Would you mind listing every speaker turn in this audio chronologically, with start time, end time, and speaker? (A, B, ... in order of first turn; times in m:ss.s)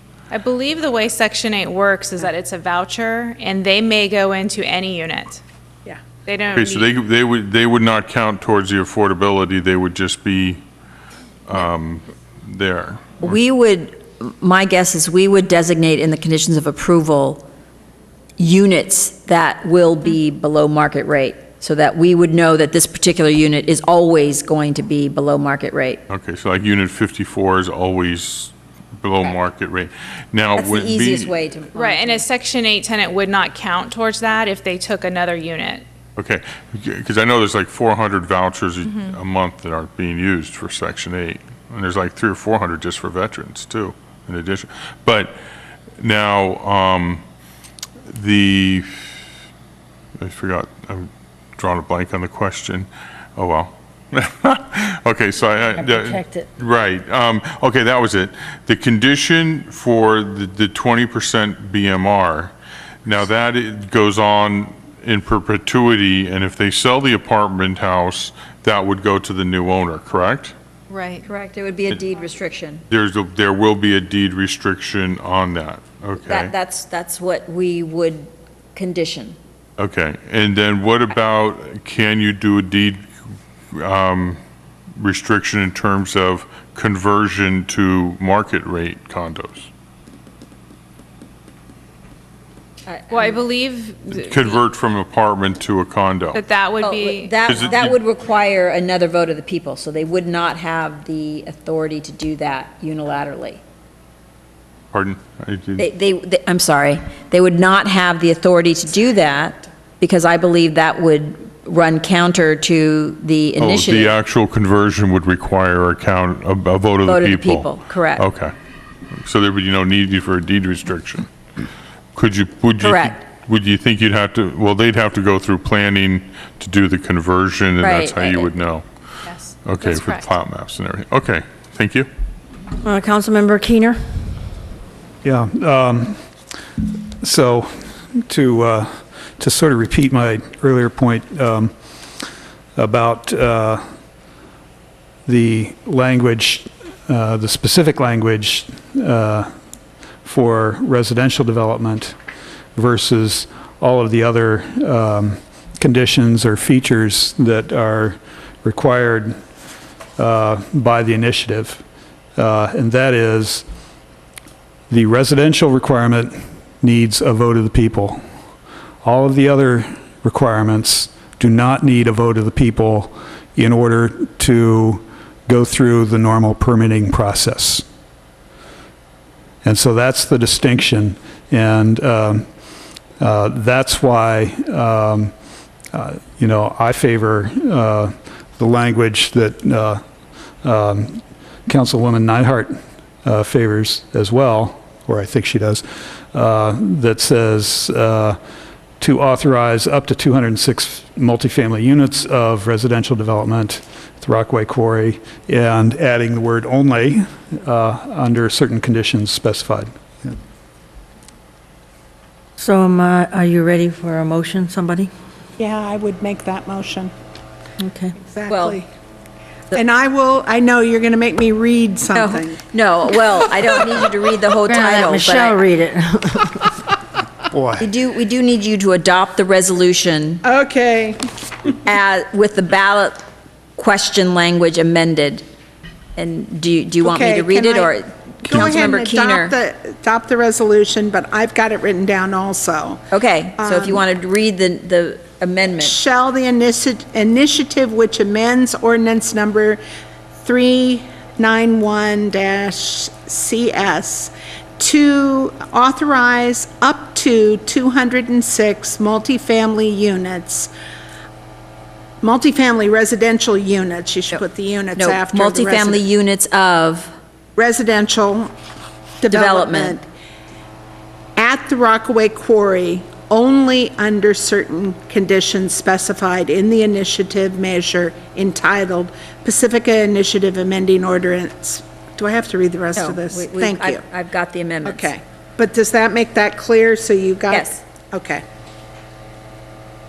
0:00.3-0:05.4 A
0:06.3-0:06.9 A
0:06.6-0:10.6 B
0:11.5-0:13.4 B
0:13.2-0:17.4 C
0:18.4-0:26.0 C
0:26.1-0:31.4 B
0:30.6-0:32.2 C
0:31.8-0:35.8 A
0:36.2-0:45.3 B
0:38.9-0:39.2 A
0:46.0-0:47.2 B
0:48.1-0:49.1 B
0:50.2-1:02.5 B
0:55.8-0:56.5 D
1:03.0-1:10.6 B
1:10.9-1:11.2 A
1:11.3-1:12.8 C
1:12.9-1:16.5 B
1:16.2-1:19.4 C
1:19.8-1:23.1 B
1:23.7-1:24.4 B
1:25.0-1:29.7 B
1:32.9-1:33.4 C
1:33.1-1:34.6 A
1:34.1-1:36.4 B
1:36.3-1:37.4 A
1:36.8-1:43.6 C
1:37.5-1:38.0 B
1:44.9-1:45.9 B
1:45.8-1:54.2 C
1:53.6-1:58.5 B
1:57.0-1:58.3 C
1:59.2-2:01.3 B
2:02.2-2:08.9 B
2:02.8-2:03.2 C
2:07.8-2:08.5 C
2:09.2-2:10.3 A
2:09.6-2:12.1 B
2:12.8-2:14.4 D
2:15.2-2:16.2 E
2:17.2-2:21.7 E
2:22.8-2:23.8 E
2:25.3-2:29.5 E
2:30.2-2:32.2 E
2:32.8-2:39.4 E
2:40.2-2:41.8 E
2:42.4-2:43.6 E
2:44.9-2:48.2 E
2:49.0-2:57.8 E
2:59.6-3:02.5 E
3:03.2-3:05.3 E
3:05.9-3:10.0 E
3:10.6-3:18.4 E
3:19.0-3:30.4 E
3:32.6-3:35.1 D
3:35.6-3:37.1 F
3:37.8-3:38.2 D
3:38.2-3:38.9 F
3:38.5-3:38.8 C
3:39.7-3:42.6 F
3:42.1-3:45.6 C
3:44.6-3:46.8 D
3:47.5-3:47.9 E
3:47.8-3:50.4 C
3:50.4-3:51.2 F
3:51.8-3:53.2 C
3:53.8-3:55.4 C
3:56.2-3:59.6 C
3:57.0-4:03.0 F
4:03.1-4:06.0 C
4:03.6-4:04.1 F
4:05.8-4:09.8 F
4:10.4-4:20.7 F
4:22.2-4:26.0 F
4:25.0-4:27.1 C
4:27.6-4:28.5 F
4:29.2-4:30.0 F
4:29.3-4:30.0 C
4:31.4-4:44.0 F
4:43.0-4:45.1 C
4:44.8-4:48.4 F
4:47.5-4:47.8 C